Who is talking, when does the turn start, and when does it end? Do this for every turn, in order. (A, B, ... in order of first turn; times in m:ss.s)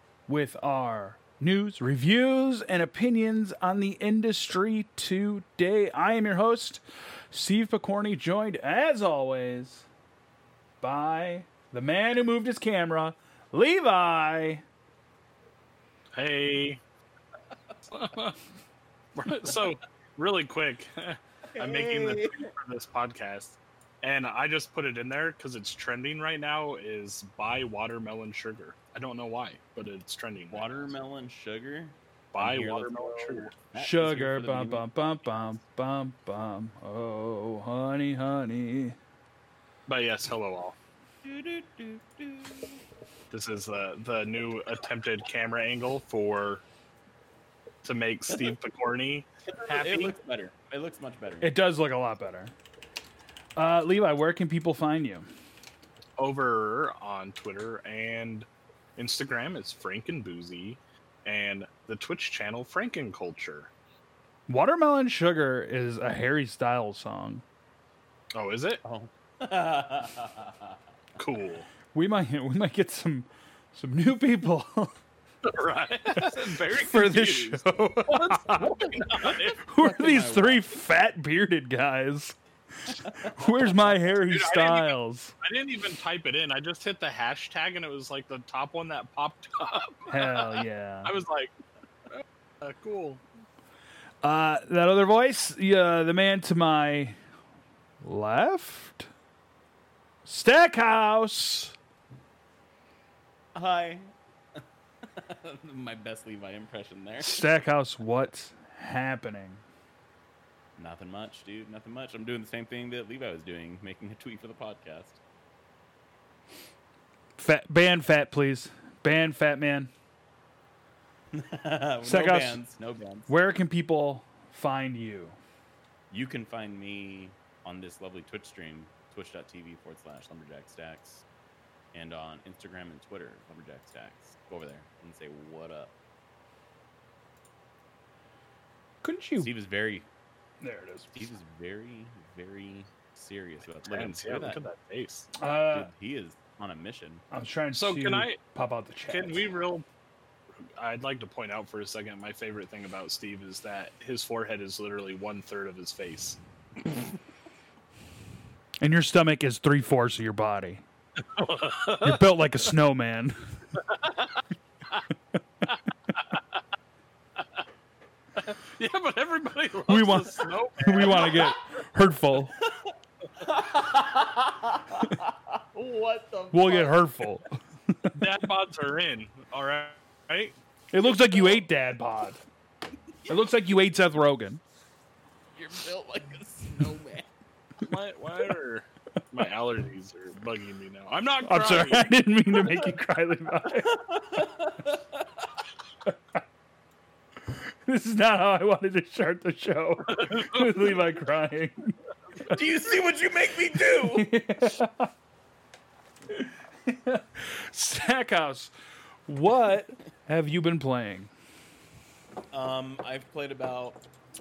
0:00.3-0:09.9 A
0:10.8-0:14.6 A
0:16.1-0:16.8 B
0:17.9-0:18.4 B
0:19.2-0:30.9 B
0:21.5-0:22.5 C
0:30.5-0:34.8 C
0:32.3-0:33.5 B
0:33.7-0:39.0 A
0:39.9-0:40.8 B
0:41.2-0:42.8 C
0:43.3-0:46.6 B
0:47.8-0:50.2 B
0:49.6-0:51.5 C
0:51.4-0:52.5 A
0:53.6-0:55.3 A
0:56.2-1:03.7 B
1:04.5-1:07.4 A
1:08.3-1:08.8 B
1:08.8-1:10.8 C
1:11.2-1:11.7 B
1:11.9-1:15.0 A
1:15.4-1:19.6 B
1:16.2-1:19.0 A
1:18.6-1:20.8 C
1:19.6-1:25.4 A
1:23.0-1:23.9 C
1:24.3-1:31.5 B
1:30.1-1:31.1 A
1:32.1-1:33.2 B
1:34.2-1:37.2 A
1:38.0-1:39.1 A
1:40.2-1:41.8 A
1:43.5-1:47.4 C
1:47.2-1:49.6 A
1:50.8-1:55.2 C
1:57.4-1:59.9 A
2:01.3-2:03.3 C
2:02.0-2:02.6 A
2:03.3-2:05.4 A
2:06.1-2:11.2 C
2:11.9-2:15.9 C
2:19.0-2:19.5 A
2:19.4-2:20.0 C
2:20.6-2:21.3 A
2:21.1-2:24.6 C
2:23.8-2:25.3 B
2:25.4-2:25.9 A
2:25.7-2:27.2 C
2:27.3-2:29.5 A
2:27.7-2:28.4 B
2:29.1-2:29.8 B
2:30.6-2:36.4 B
2:38.8-2:40.8 A
2:41.2-2:42.3 B
2:42.0-2:43.6 A
2:43.9-2:44.4 B
2:48.4-2:51.5 B
2:49.9-2:52.6 A
2:53.4-2:57.1 C
2:56.5-2:58.2 A
2:58.1-3:00.5 B
3:00.9-3:02.4 A
3:03.3-3:04.6 A
3:05.5-3:07.3 C
3:07.8-3:12.1 B
3:11.4-3:14.0 A
3:13.6-3:15.5 C
3:17.5-3:22.0 A
3:20.3-3:20.7 B
3:22.4-3:24.3 C
3:24.0-3:25.1 A
3:26.3-3:28.7 A
3:29.3-3:31.3 A
3:32.5-3:34.0 C